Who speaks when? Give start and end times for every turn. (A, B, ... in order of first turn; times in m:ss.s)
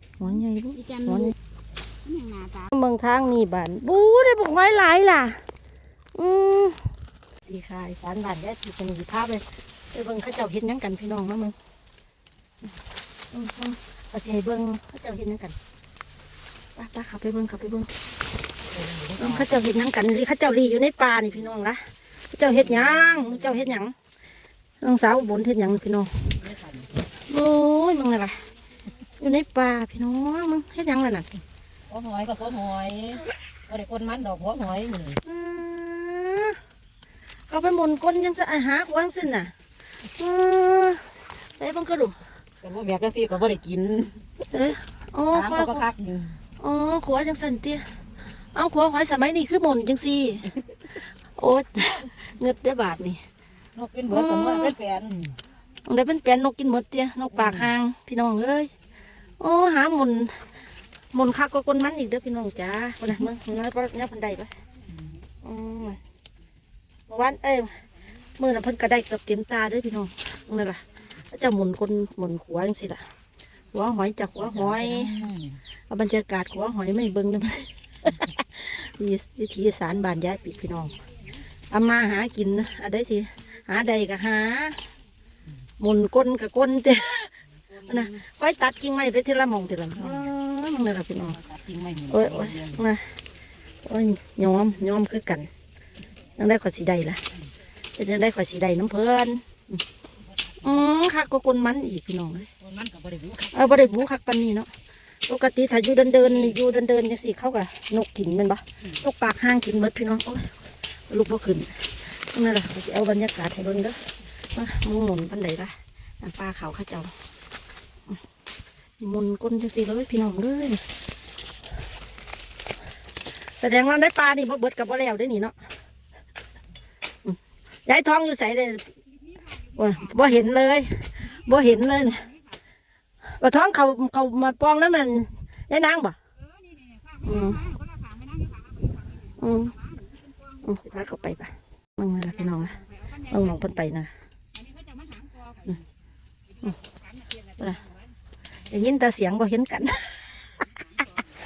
0:00.2-0:01.4 A
0:00.8-0:01.3 B
0:02.0-0:02.7 B
0:02.7-0:05.4 A
0:06.2-0:06.9 A
0:07.5-0:11.6 A
0:13.3-0:15.6 A
0:16.8-0:17.9 A
0:18.7-0:19.6 C
0:19.2-0:23.9 A
0:22.6-0:23.6 C
0:24.8-0:26.4 A
0:26.4-0:26.9 C
0:27.3-0:28.4 A
0:29.2-0:31.3 A
0:31.9-0:35.2 C
0:35.2-0:36.6 A
0:37.5-0:39.5 A
0:40.2-0:42.2 A
0:42.6-0:44.2 C
0:44.5-0:45.9 A
0:45.3-0:46.4 C
0:46.6-0:47.8 A
0:48.5-0:53.2 A
0:53.8-0:55.4 C
0:54.1-0:54.8 A
0:55.8-0:58.7 A
0:57.4-0:57.7 C
0:59.4-1:00.4 A
1:01.1-1:04.5 A
1:05.4-1:06.0 A
1:07.1-1:07.8 A
1:08.4-1:13.1 A
1:13.7-1:15.2 A
1:14.5-1:15.6 C
1:15.9-1:21.0 A
1:21.7-1:24.8 A
1:25.8-1:27.3 A
1:27.7-1:28.1 C
1:27.8-1:31.4 A
1:30.0-1:30.3 C
1:31.4-1:32.8 C
1:32.1-1:33.2 A
1:33.8-1:35.5 A
1:36.4-1:37.2 A
1:38.0-1:39.8 A
1:40.6-1:42.5 A
1:42.6-1:43.7 C
1:43.5-1:44.7 A
1:45.3-1:57.2 A
1:59.0-2:00.8 A
2:03.6-2:05.6 A
2:07.2-2:08.9 A
2:09.2-2:10.2 B
2:09.8-2:12.2 A
2:11.2-2:12.6 B
2:13.2-2:16.2 A
2:16.4-2:20.8 B
2:17.2-2:17.6 A
2:19.4-2:19.8 A
2:20.6-2:22.8 A
2:22.2-2:23.8 B
2:23.3-2:24.1 A
2:24.5-2:25.8 B
2:26.5-2:28.1 B
2:28.7-2:30.3 A
2:30.4-2:31.3 B